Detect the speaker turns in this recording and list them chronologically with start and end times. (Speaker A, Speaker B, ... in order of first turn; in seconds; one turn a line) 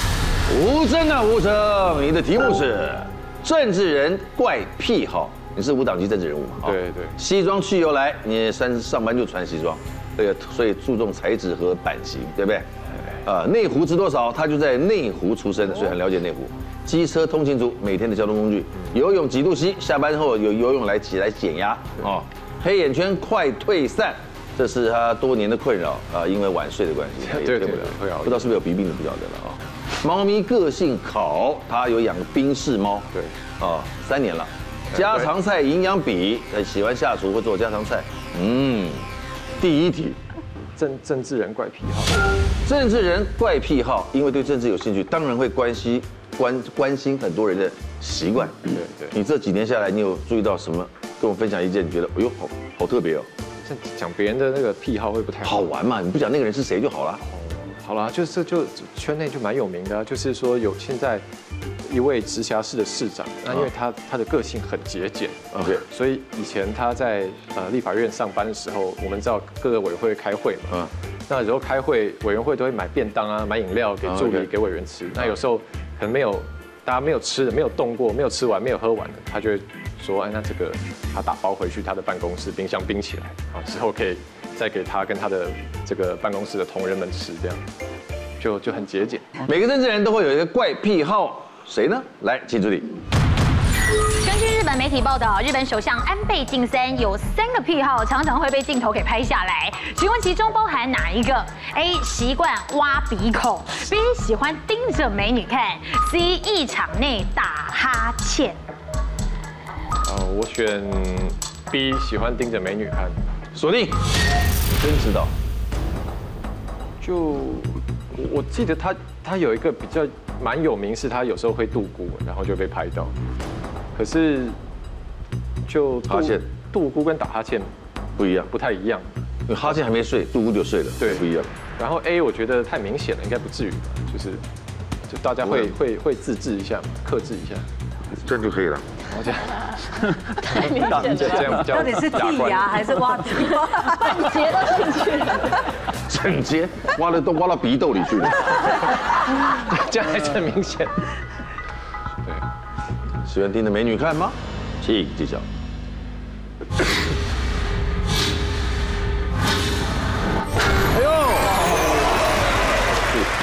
Speaker A: 0.5-12.7
Speaker B: 6.7-7.2
Speaker A: 13.2-39.1
Speaker B: 27.2-28.5
Speaker B: 34.9-35.3
Speaker A: 39.6-40.2
Speaker B: 40.8-42.2
Speaker A: 42.6-53.3
Speaker B: 48.7-49.1
Speaker B: 53.6-55.7
Speaker A: 55.4-57.2
Speaker B: 57.2-61.2
Speaker B: 61.8-87.6
Speaker A: 65.5-65.8
Speaker A: 74.0-74.5
Speaker B: 88.4-89.4
Speaker A: 89.5-93.0
Speaker C: 94.2-108.6
Speaker B: 110.0-113.2
Speaker A: 113.5-114.1
Speaker A: 114.7-115.3
Speaker B: 117.0-123.1
Speaker B: 124.0-124.6
Speaker B: 125.7-127.7
Speaker A: 126.1-126.4
Speaker A: 128.2-128.5
Speaker B: 128.5-129.1
Speaker A: 129.5-131.5
Speaker B: 131.0-134.4
Speaker B: 135.1-137.7
Speaker A: 135.4-135.7
Speaker A: 138.2-138.9
Speaker B: 139.1-143.1
Speaker D: 140.5-141.7
Speaker E: 141.7-144.3
Speaker D: 143.5-145.6
Speaker A: 146.1-148.6
Speaker B: 149.4-151.1
Speaker A: 153.2-155.5
Speaker A: 160.9-162.1